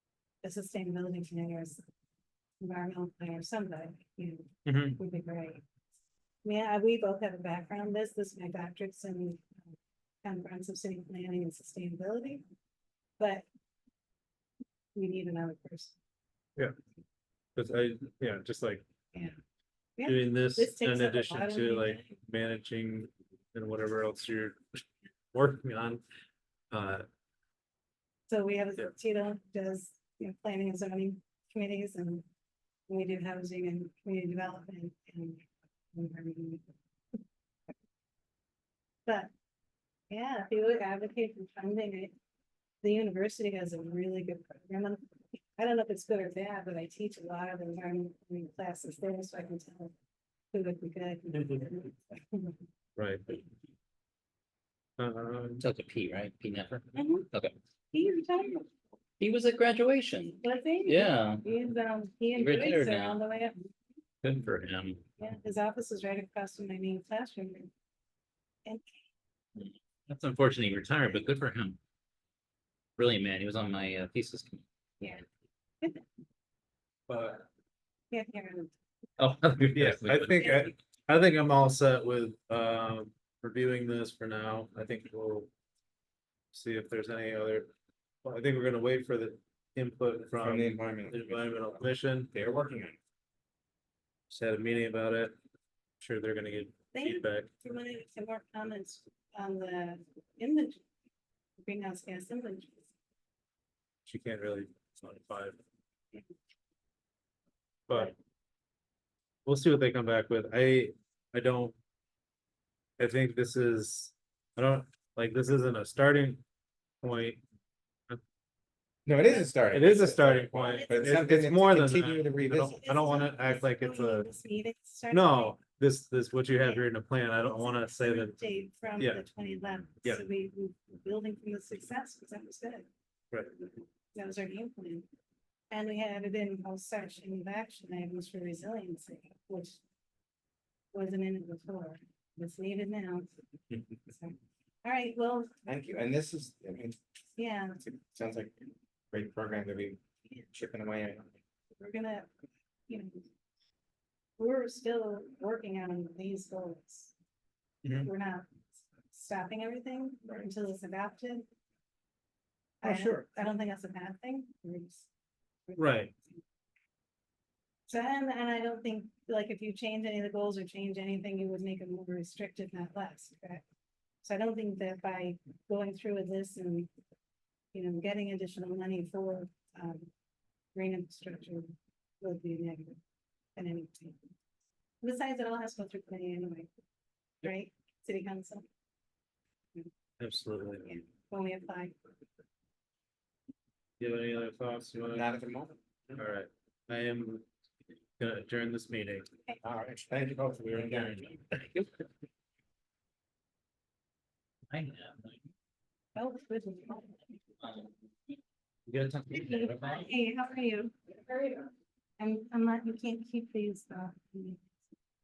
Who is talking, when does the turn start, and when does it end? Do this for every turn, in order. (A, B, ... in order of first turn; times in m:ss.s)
0:00.4-0:01.8 A
0:02.6-0:05.6 A
0:04.6-0:05.0 B
0:06.4-0:09.6 A
0:10.2-0:12.4 A
0:13.2-0:13.5 A
0:14.9-0:16.0 A
0:17.6-0:18.8 B
0:19.1-0:19.4 A
0:20.0-0:22.2 A
0:20.0-0:26.0 B
0:26.7-0:27.0 B
0:28.3-0:32.2 A
0:32.9-0:36.6 A
0:39.0-0:39.3 A
0:40.1-0:42.1 A
0:42.8-0:49.9 A
0:50.5-0:52.6 A
0:53.0-0:53.2 B
0:55.0-0:55.6 B
0:55.6-0:57.5 C
0:56.9-0:57.2 A
0:57.9-0:58.7 A
0:59.2-1:01.4 C
1:00.4-1:03.7 A
1:02.3-1:03.2 C
1:04.2-1:05.0 C
1:05.2-1:07.7 A
1:10.1-1:11.8 C
1:13.0-1:14.6 C
1:17.1-1:17.5 B
1:18.1-1:18.7 A
1:19.2-1:20.6 C
1:19.7-1:25.5 B
1:20.4-1:20.7 A
1:26.5-1:27.7 B
1:28.2-1:32.3 B
1:30.4-1:33.0 D
1:34.3-1:35.3 B
1:36.0-1:37.5 B
1:36.9-1:40.8 A
1:41.6-1:42.9 A
1:44.0-1:45.6 B
1:47.9-1:48.1 B
1:49.4-1:51.8 B
1:53.0-1:56.4 B
1:57.0-1:57.4 B
1:59.0-2:03.0 D
1:59.7-2:04.3 B
2:00.7-2:01.1 A
2:02.8-2:05.6 A
2:05.1-2:08.4 B
2:06.6-2:06.8 A
2:07.5-2:12.9 A
2:09.0-2:09.2 B
2:14.1-2:15.0 A
2:15.7-2:19.8 A
2:20.9-2:23.3 A
2:24.1-2:25.6 A
2:25.6-2:27.0 D
2:27.4-2:27.8 A
2:27.8-2:31.3 D
2:31.8-2:32.3 A
2:32.9-2:33.2 A
2:34.4-2:37.1 A
2:38.0-2:41.5 A
2:42.8-2:45.1 A
2:42.8-2:43.2 B
2:45.7-2:46.4 A
2:45.8-2:46.1 B
2:47.9-2:53.6 A
2:54.2-2:56.9 A
2:57.7-3:00.1 A
3:00.7-3:03.0 A
3:03.6-3:04.2 A
3:05.0-3:06.7 A
3:07.4-3:08.6 A
3:10.2-3:10.9 B
3:10.8-3:11.9 A
3:14.0-3:15.3 B
3:15.1-3:15.8 D
3:16.1-3:17.4 B
3:18.2-3:19.2 B
3:19.6-3:21.8 D
3:20.8-3:21.2 C
3:24.7-3:25.5 C
3:26.1-3:27.2 A
3:28.9-3:30.1 C
3:29.3-3:34.8 A